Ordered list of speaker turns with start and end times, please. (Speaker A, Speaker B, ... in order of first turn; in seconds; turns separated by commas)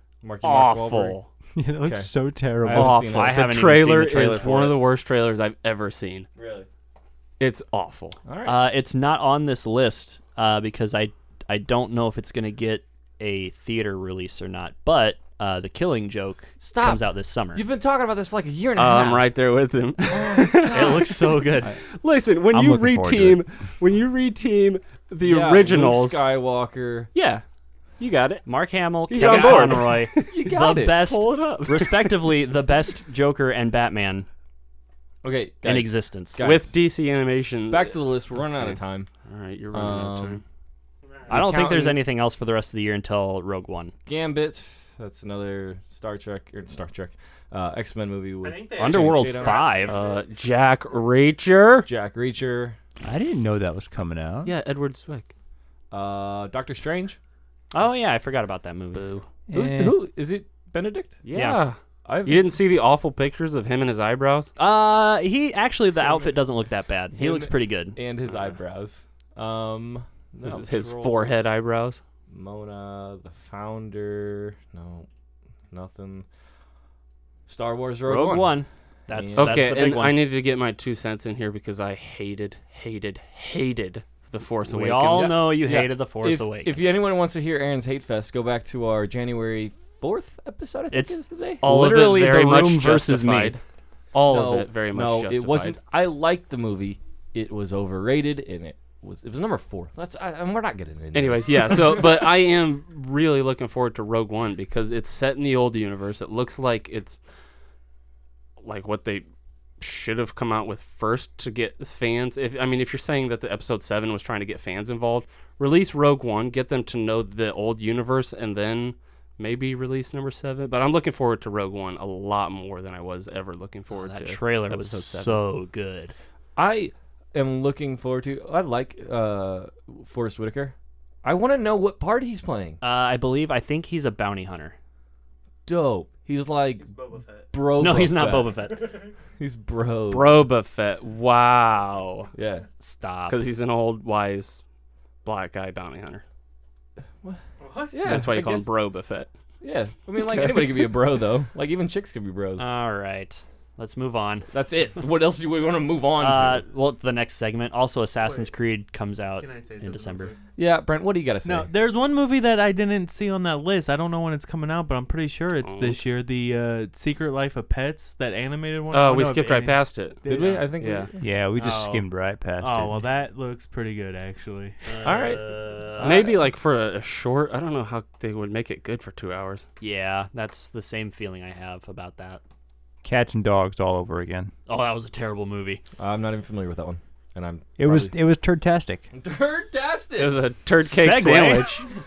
Speaker A: 0.2-1.2, Speaker B: 0.4-1.2, Speaker C: 1.6-3.0, Speaker A: 1.8-2.1, Speaker A: 2.6-4.8, Speaker B: 2.7-6.3, Speaker D: 3.0-4.5, Speaker A: 6.4-6.7, Speaker B: 7.4-8.2, Speaker A: 8.3-8.6, Speaker D: 8.4-17.6, Speaker A: 16.6-19.3, Speaker B: 18.8-21.2, Speaker A: 20.1-21.7, Speaker D: 20.7-21.7, Speaker B: 22.0-26.3, Speaker C: 22.5-23.4, Speaker A: 25.2-27.1, Speaker B: 27.1-27.4, Speaker B: 28.0-28.4, Speaker D: 28.5-34.3, Speaker B: 29.1-32.2, Speaker A: 29.1-31.1, Speaker A: 35.2-36.8, Speaker D: 35.6-36.4, Speaker B: 36.4-40.4, Speaker A: 37.7-39.1, Speaker A: 39.7-40.4, Speaker A: 41.3-42.0, Speaker D: 41.3-43.9, Speaker A: 44.1-49.8, Speaker E: 48.4-50.3, Speaker D: 48.8-50.0, Speaker B: 49.9-51.9, Speaker A: 51.9-52.8, Speaker C: 53.0-54.5, Speaker B: 54.5-55.3, Speaker A: 55.9-57.2, Speaker D: 57.7-59.2, Speaker C: 59.5-60.0, Speaker A: 59.5-61.2, Speaker B: 61.2-64.5, Speaker D: 61.3-61.6, Speaker A: 62.0-62.6, Speaker D: 64.6-68.0, Speaker A: 66.0-66.3, Speaker A: 67.2-71.5, Speaker B: 70.4-72.0, Speaker A: 72.3-75.1, Speaker A: 75.7-76.3, Speaker A: 77.5-79.6, Speaker D: 78.1-80.2, Speaker B: 79.4-85.4, Speaker D: 84.7-87.0, Speaker A: 85.2-91.7, Speaker D: 90.9-93.6, Speaker B: 91.6-93.6, Speaker B: 94.1-95.8, Speaker A: 94.3-102.3, Speaker B: 101.1-107.2, Speaker B: 108.6-109.3, Speaker B: 109.8-125.4, Speaker D: 123.9-126.1, Speaker A: 126.6-132.8, Speaker D: 132.8-134.8, Speaker A: 135.7-136.9, Speaker E: 136.8-137.5, Speaker A: 137.5-138.6, Speaker D: 137.8-138.9, Speaker E: 138.8-139.1, Speaker A: 139.4-140.5, Speaker B: 140.1-142.3, Speaker A: 142.3-142.7, Speaker D: 142.8-143.4, Speaker B: 143.3-144.6, Speaker B: 145.2-146.2, Speaker A: 147.2-148.7, Speaker E: 147.6-148.2, Speaker B: 148.1-149.3, Speaker A: 149.6-152.7, Speaker B: 150.3-150.8, Speaker D: 152.6-154.5, Speaker A: 154.5-156.6, Speaker D: 156.2-160.3, Speaker E: 158.2-158.5, Speaker E: 159.4-160.4, Speaker A: 160.6-161.7, Speaker E: 161.4-170.7, Speaker B: 165.6-166.0, Speaker B: 168.9-170.2, Speaker A: 170.3-171.2, Speaker B: 170.8-171.1, Speaker C: 171.2-173.1, Speaker D: 171.6-172.0, Speaker E: 172.6-175.3, Speaker D: 174.8-176.2, Speaker A: 175.0-175.4, Speaker A: 176.0-176.4, Speaker B: 176.0-179.7, Speaker D: 179.8-182.4, Speaker C: 183.0-184.5, Speaker D: 184.7-185.8, Speaker A: 186.0-188.1, Speaker C: 187.8-189.1, Speaker A: 189.1-190.4, Speaker B: 190.2-191.8, Speaker D: 190.8-191.8